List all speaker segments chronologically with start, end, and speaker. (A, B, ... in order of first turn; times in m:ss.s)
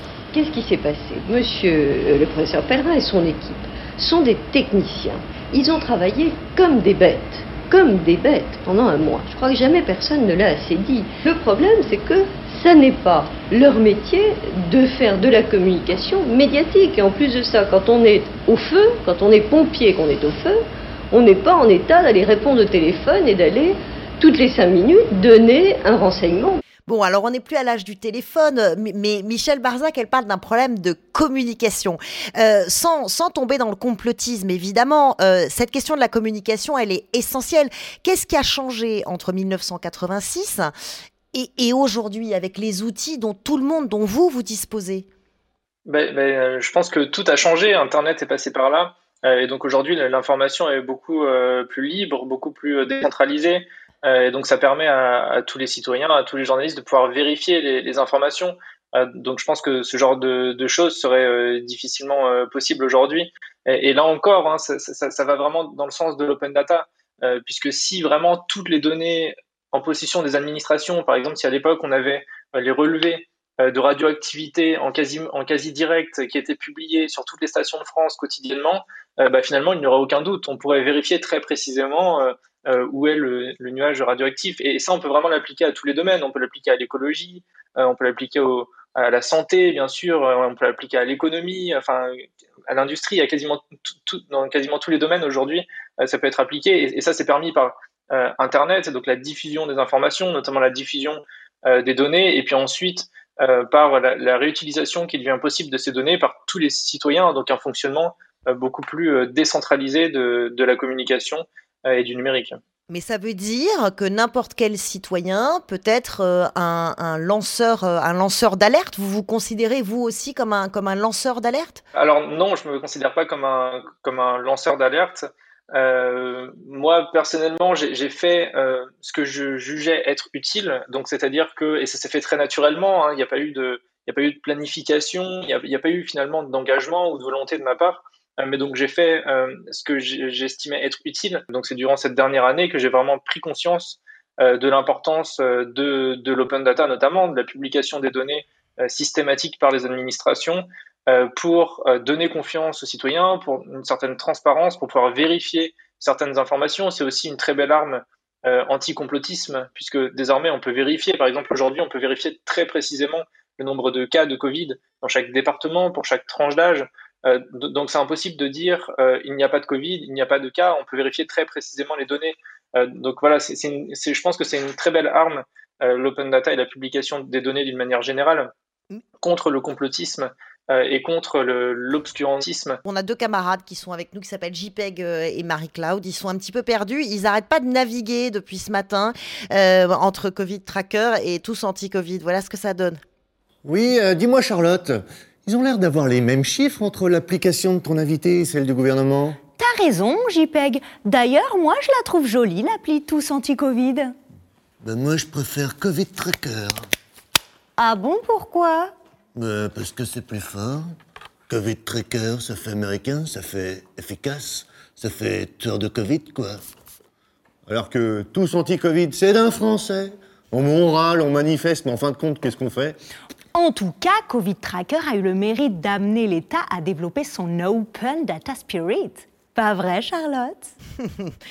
0:00.3-0:26.6 A
0:26.9-0:40.7 B
0:41.3-0:45.1 B
0:45.9-1:52.6 C
1:52.9-2:01.8 B
2:02.0-2:58.5 C
2:59.2-3:02.8 C
3:02.8-3:13.0 B
3:13.6-3:19.4 D
3:19.6-3:24.2 E
3:24.8-3:26.8 D
3:27.8-3:28.9 E
3:29.4-3:30.9 D
3:31.5-3:36.6 D
3:37.7-3:43.0 D
3:43.5-3:50.7 E
3:51.0-3:51.3 B